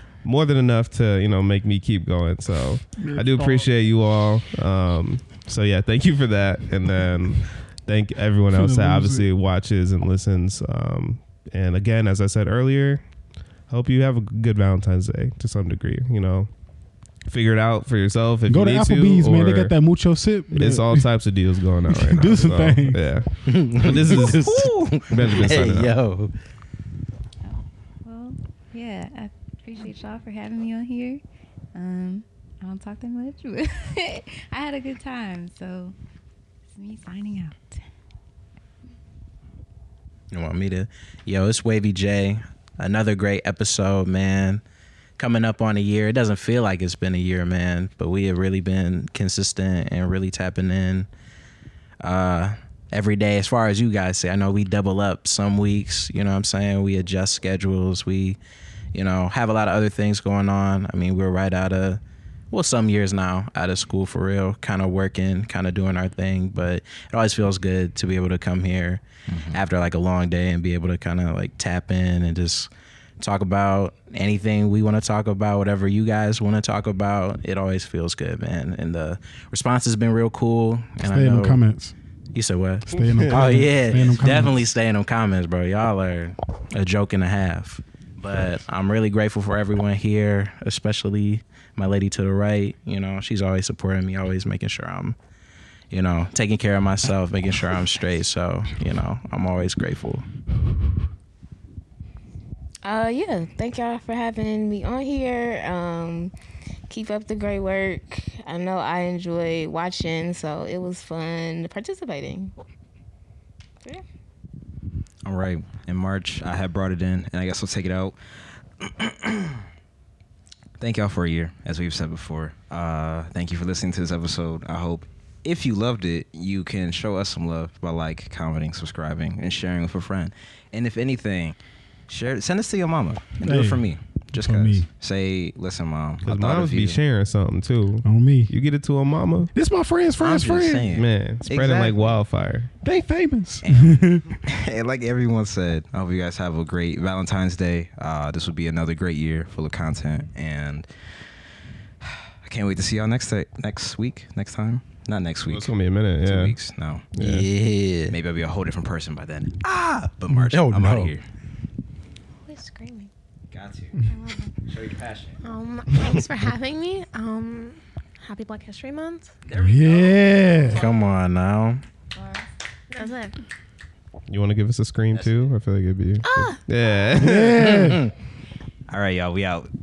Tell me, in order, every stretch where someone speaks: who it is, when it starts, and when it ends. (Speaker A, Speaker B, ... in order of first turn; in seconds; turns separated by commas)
Speaker A: 0.2-13.0, Speaker B: 3.0-3.7, Speaker B: 8.5-9.3, Speaker A: 13.7-16.5, Speaker A: 17.2-19.8, Speaker B: 18.5-21.1, Speaker A: 20.5-26.0, Speaker B: 21.9-23.0, Speaker C: 23.5-26.3, Speaker D: 27.4-31.2, Speaker D: 31.7-35.9, Speaker D: 36.7-37.8, Speaker C: 40.3-44.6, Speaker C: 45.2-51.1, Speaker C: 52.0-58.4, Speaker C: 58.9-62.0, Speaker C: 62.5-72.7, Speaker E: 69.3-69.6, Speaker C: 73.2-81.6, Speaker B: 81.0-81.9, Speaker C: 82.3-95.2, Speaker B: 82.9-84.7, Speaker A: 83.0-83.7, Speaker C: 95.9-100.2, Speaker F: 102.8-106.3, Speaker F: 106.9-112.5, Speaker E: 115.2-118.2, Speaker E: 118.8-119.6, Speaker E: 120.8-131.6, Speaker E: 132.1-137.0, Speaker B: 133.4-134.9, Speaker A: 136.2-139.5, Speaker B: 138.0-138.5, Speaker B: 139.5-141.0, Speaker E: 140.2-142.2, Speaker A: 140.9-142.7, Speaker B: 142.8-144.4, Speaker E: 143.6-150.9, Speaker E: 152.0-157.1, Speaker A: 155.4-156.6, Speaker A: 157.1-157.5, Speaker C: 157.2-158.2, Speaker E: 158.1-161.2, Speaker C: 160.5-161.2, Speaker G: 162.4-163.1, Speaker E: 163.5-164.0, Speaker D: 164.0-164.6, Speaker E: 164.7-165.4, Speaker G: 165.4-169.3, Speaker E: 169.4-171.1, Speaker B: 169.6-170.8, Speaker C: 170.7-171.8, Speaker D: 172.1-172.5, Speaker G: 172.9-173.3, Speaker A: 174.3-177.9, Speaker E: 175.1-175.5, Speaker G: 176.2-176.6, Speaker B: 177.1-178.1, Speaker C: 177.6-178.1, Speaker E: 178.9-179.7